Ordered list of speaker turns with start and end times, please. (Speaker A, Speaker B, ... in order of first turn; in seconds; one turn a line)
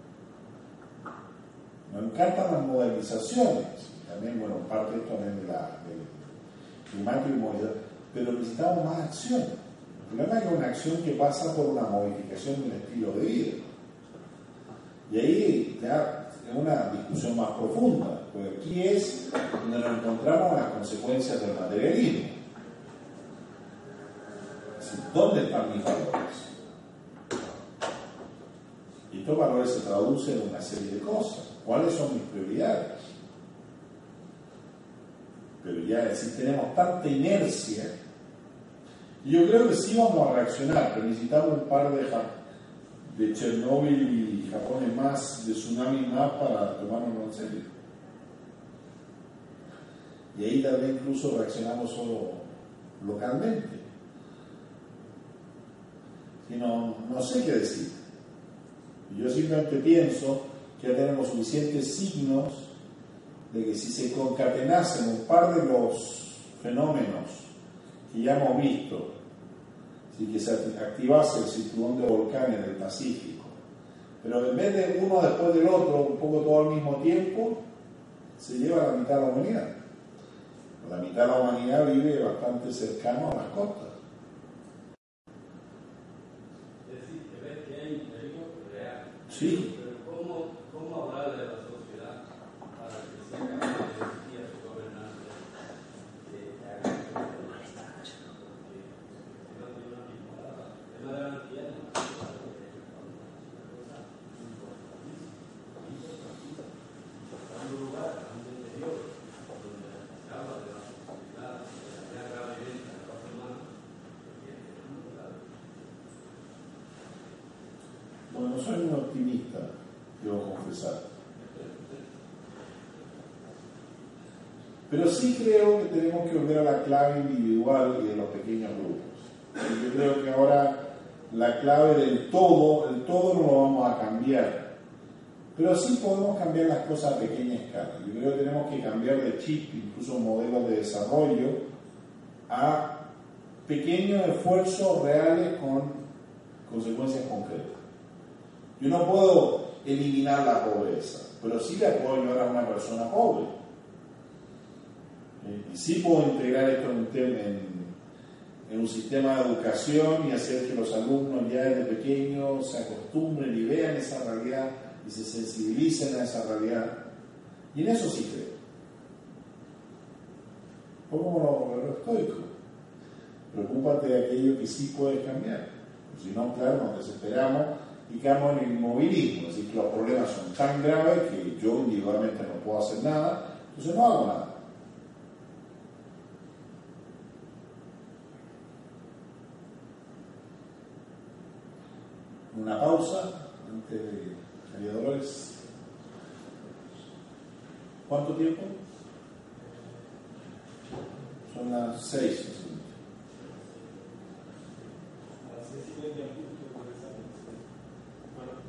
Speaker A: 1.9-6.2
Speaker A: 6.9-13.7
Speaker A: 15.1-22.4
Speaker A: 24.8-26.5
Speaker A: 29.1-33.1
Speaker A: 35.6-37.9
Speaker A: 39.2-42.3
Speaker A: 43.0-47.7
Speaker A: 50.3-53.8
Speaker A: 56.5-58.0
Speaker A: 59.1-62.7
Speaker A: 63.5-67.5
Speaker A: 68.1-69.1
Speaker A: 70.1-73.5
Speaker A: 74.2-77.6
Speaker A: 78.4-79.7
Speaker A: 80.8-83.9
Speaker B: 86.8-92.2
Speaker A: 89.3-89.6
Speaker B: 92.7-95.5
Speaker B: 96.2-106.7
Speaker B: 107.3-113.7
Speaker B: 114.2-115.9
Speaker A: 118.3-121.1
Speaker B: 121.5-122.0
Speaker A: 124.9-134.7
Speaker A: 135.5-141.6
Speaker A: 142.5-143.0
Speaker A: 143.7-146.0
Speaker A: 146.6-147.8
Speaker A: 148.8-153.5
Speaker A: 155.4-157.9
Speaker A: 158.7-166.9
Speaker A: 167.7-168.6
Speaker A: 171.1-172.5
Speaker A: 173.5-184.5
Speaker A: 192.5-195.6
Speaker A: 198.1-198.7
Speaker A: 201.5-202.9
Speaker C: 203.4-204.0
Speaker C: 205.4-207.6